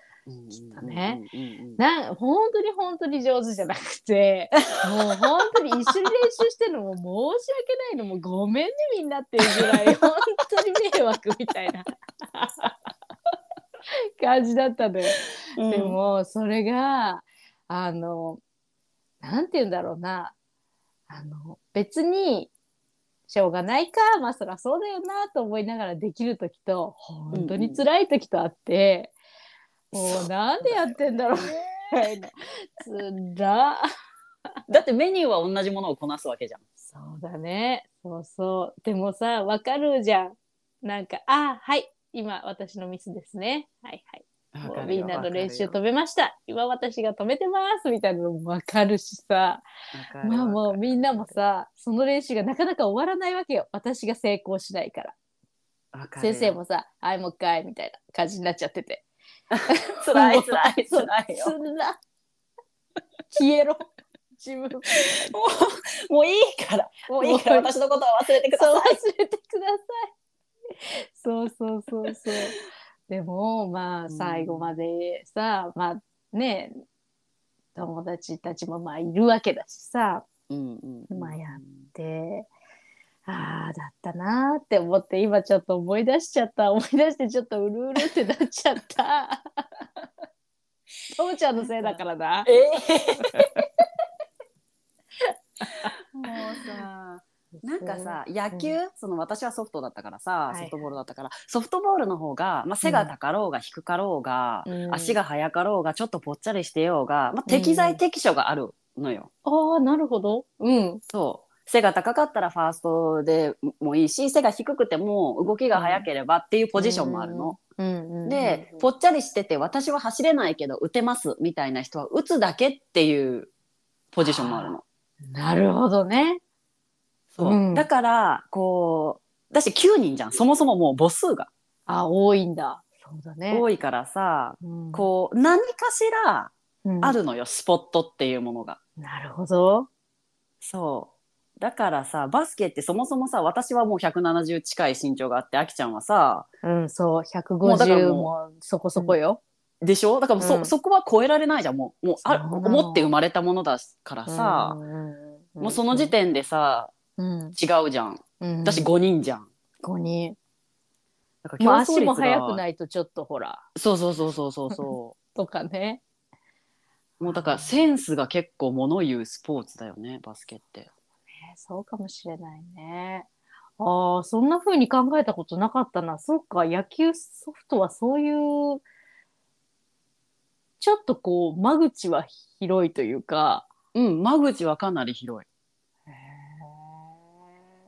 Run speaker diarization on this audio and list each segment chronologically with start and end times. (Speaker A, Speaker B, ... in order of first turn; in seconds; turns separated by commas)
Speaker A: 0.3-1.8, Speaker B: 0.7-1.2, Speaker B: 1.8-12.7, Speaker A: 9.4-9.8, Speaker B: 14.2-18.4, Speaker A: 15.6-16.0, Speaker B: 19.2-20.3, Speaker B: 21.1-22.5, Speaker B: 23.3-29.1, Speaker A: 27.3-27.8, Speaker B: 29.9-33.9, Speaker A: 29.9-32.1, Speaker A: 34.7-36.6, Speaker B: 36.8-49.6, Speaker A: 44.5-45.8, Speaker A: 49.9-51.4, Speaker B: 50.2-55.1, Speaker A: 55.9-56.6, Speaker B: 56.2-59.0, Speaker A: 59.5-61.5, Speaker B: 59.7-62.0, Speaker B: 63.3-65.3, Speaker A: 65.0-69.0, Speaker B: 67.2-67.7, Speaker B: 68.5-70.1, Speaker B: 70.7-72.6, Speaker B: 73.1-76.8, Speaker A: 74.1-74.7, Speaker B: 77.7-80.2, Speaker A: 80.5-81.9, Speaker B: 81.1-82.5, Speaker B: 83.2-89.7, Speaker B: 91.1-93.5, Speaker A: 91.6-93.5, Speaker B: 95.2-96.8, Speaker A: 95.8-109.3, Speaker B: 97.6-98.7, Speaker B: 100.5-100.8, Speaker B: 102.8-103.1, Speaker B: 104.7-105.2, Speaker B: 107.5-108.0, Speaker B: 109.4-111.0, Speaker A: 111.1-117.6, Speaker B: 115.7-116.0, Speaker B: 116.8-118.8, Speaker A: 118.2-123.5, Speaker A: 124.1-124.8, Speaker B: 124.2-126.4, Speaker A: 127.3-131.5, Speaker B: 127.4-127.9, Speaker B: 131.9-133.6, Speaker A: 133.5-138.8, Speaker B: 134.6-135.1, Speaker B: 136.8-137.2, Speaker B: 139.0-139.9, Speaker A: 140.6-146.5, Speaker B: 146.6-149.4, Speaker A: 147.6-148.3, Speaker A: 149.8-154.8, Speaker B: 150.4-150.7, Speaker B: 152.2-153.1, Speaker B: 154.3-156.1, Speaker A: 155.6-156.9, Speaker B: 157.2-157.6, Speaker A: 157.5-159.5, Speaker B: 158.4-158.9, Speaker B: 159.8-160.4, Speaker A: 161.4-162.6, Speaker B: 161.6-163.6, Speaker A: 163.8-165.2, Speaker B: 164.7-166.0, Speaker A: 167.2-170.9, Speaker B: 167.2-167.8, Speaker B: 171.4-173.3, Speaker B: 173.8-178.8, Speaker B: 180.8-183.7, Speaker A: 183.9-185.4, Speaker B: 186.1-187.1